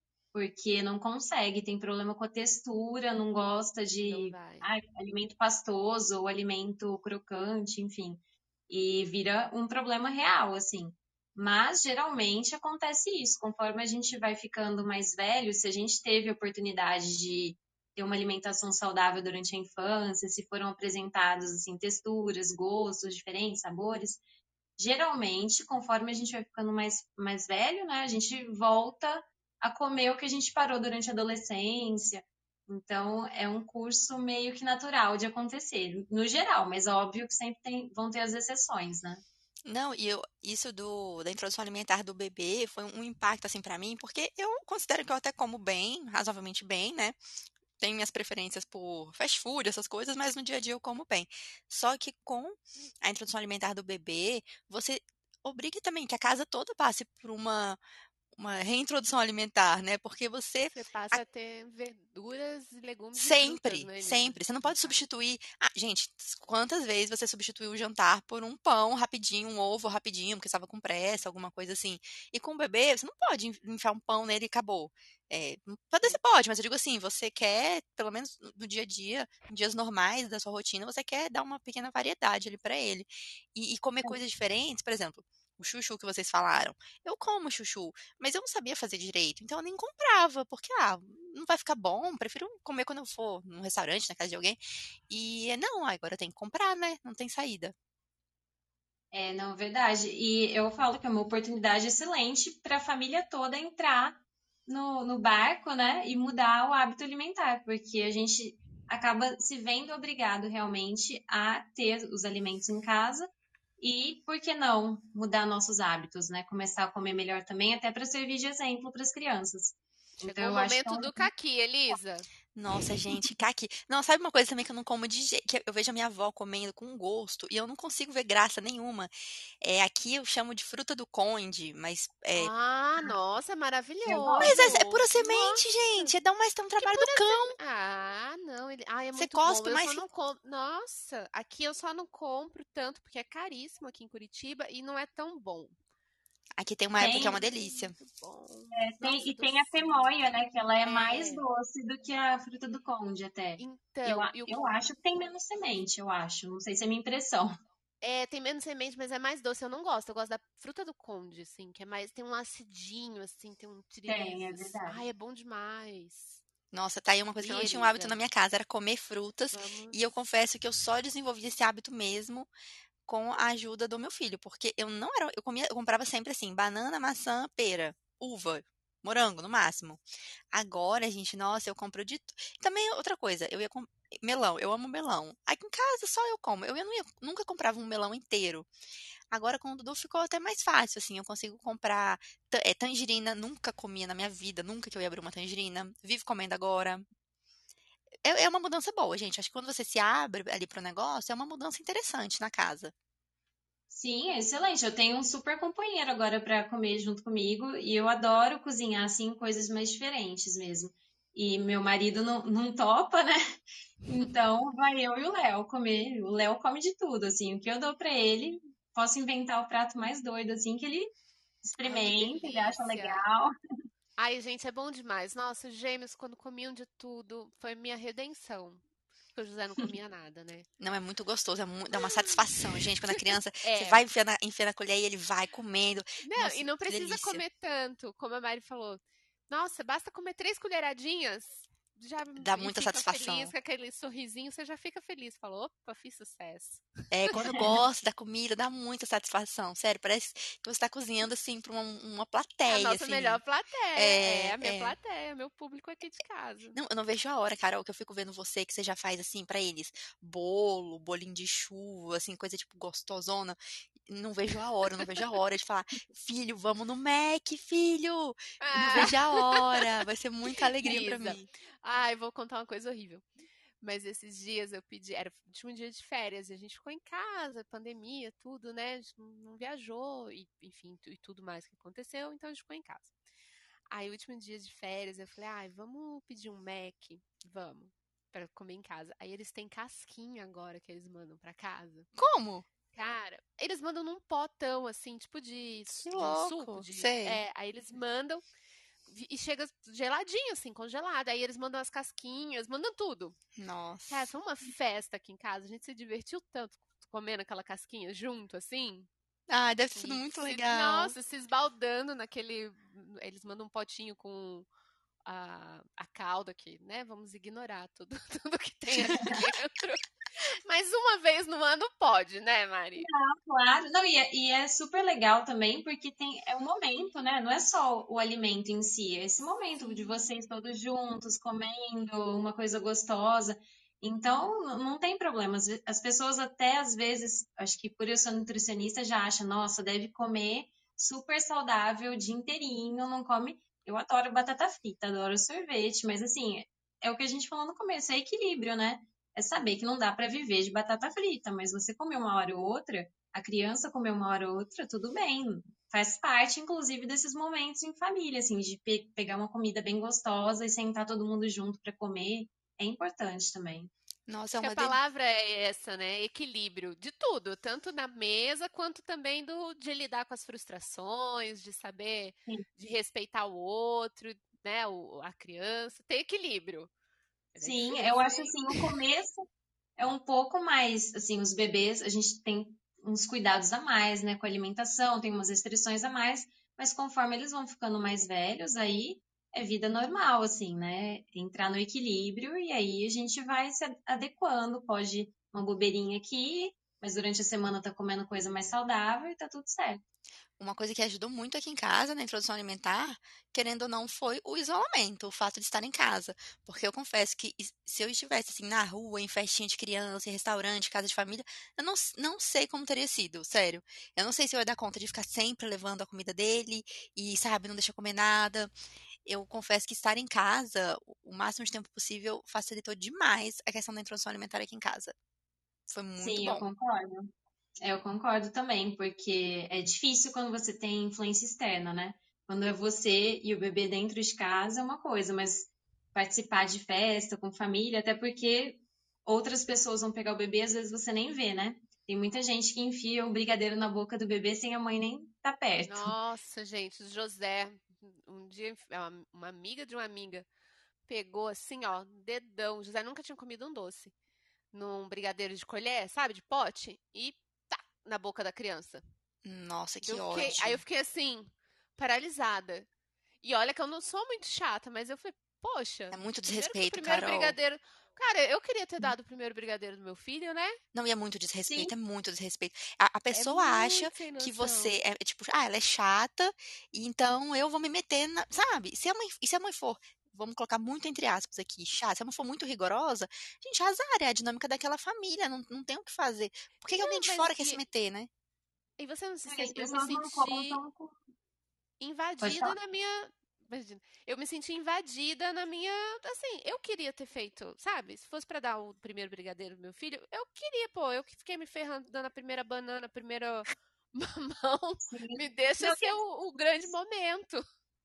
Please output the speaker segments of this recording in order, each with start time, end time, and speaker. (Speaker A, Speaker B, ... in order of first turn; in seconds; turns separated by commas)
Speaker A: 0.3-24.2, Speaker B: 4.0-4.7, Speaker A: 24.8-39.2, Speaker C: 39.6-47.2, Speaker C: 47.8-57.8, Speaker C: 58.3-61.2, Speaker B: 60.7-65.0, Speaker C: 63.1-94.6, Speaker C: 95.1-97.7, Speaker A: 99.1-113.3, Speaker A: 113.8-121.3, Speaker B: 120.2-122.3, Speaker C: 122.5-132.5, Speaker B: 132.3-136.1, Speaker A: 134.1-134.7, Speaker C: 134.1-137.6, Speaker B: 136.8-145.8, Speaker C: 139.1-140.0, Speaker C: 146.6-147.9, Speaker A: 147.0-147.4, Speaker B: 147.0-150.3, Speaker A: 148.7-157.5, Speaker B: 150.8-151.4, Speaker B: 153.6-154.7, Speaker B: 158.0-166.4, Speaker A: 164.1-165.0, Speaker C: 166.7-172.5, Speaker B: 167.4-168.2, Speaker B: 169.5-170.0, Speaker C: 173.1-188.7, Speaker C: 189.3-197.0, Speaker C: 198.2-202.9, Speaker A: 203.9-213.4, Speaker A: 214.1-221.1, Speaker B: 214.1-214.4, Speaker A: 221.6-223.5, Speaker B: 221.8-223.2, Speaker B: 224.2-228.8, Speaker B: 229.3-230.7, Speaker C: 230.8-237.4, Speaker B: 231.9-232.4, Speaker B: 233.1-234.0, Speaker B: 236.2-247.8, Speaker C: 242.4-243.5, Speaker C: 247.1-253.4, Speaker B: 252.7-256.8, Speaker C: 253.9-255.0, Speaker C: 256.7-271.5, Speaker B: 268.6-269.9, Speaker B: 270.8-273.3, Speaker B: 273.8-283.1, Speaker B: 283.9-292.1, Speaker C: 292.2-292.7, Speaker B: 292.9-298.4, Speaker C: 296.0-297.4, Speaker B: 299.1-303.4, Speaker C: 303.6-304.3, Speaker B: 304.1-309.1, Speaker C: 309.5-311.2, Speaker B: 309.9-314.6, Speaker B: 315.2-323.1, Speaker A: 319.0-319.4, Speaker A: 323.0-363.9, Speaker C: 364.3-365.0, Speaker B: 364.6-376.9, Speaker B: 377.5-378.8, Speaker A: 377.6-379.4, Speaker A: 380.0-400.0, Speaker C: 400.6-418.7, Speaker C: 419.2-425.1, Speaker C: 425.9-426.7, Speaker A: 426.2-427.3, Speaker A: 427.8-446.1, Speaker B: 445.9-450.4, Speaker B: 451.1-454.1, Speaker B: 454.7-459.0, Speaker C: 459.4-460.8, Speaker B: 460.0-462.9, Speaker B: 463.4-470.8, Speaker C: 466.1-467.6, Speaker C: 470.9-488.3, Speaker A: 471.6-471.9, Speaker B: 473.3-474.9, Speaker B: 486.9-487.8, Speaker B: 489.0-490.8, Speaker A: 489.5-491.1, Speaker B: 492.0-507.6, Speaker A: 492.4-492.8, Speaker A: 505.0-506.2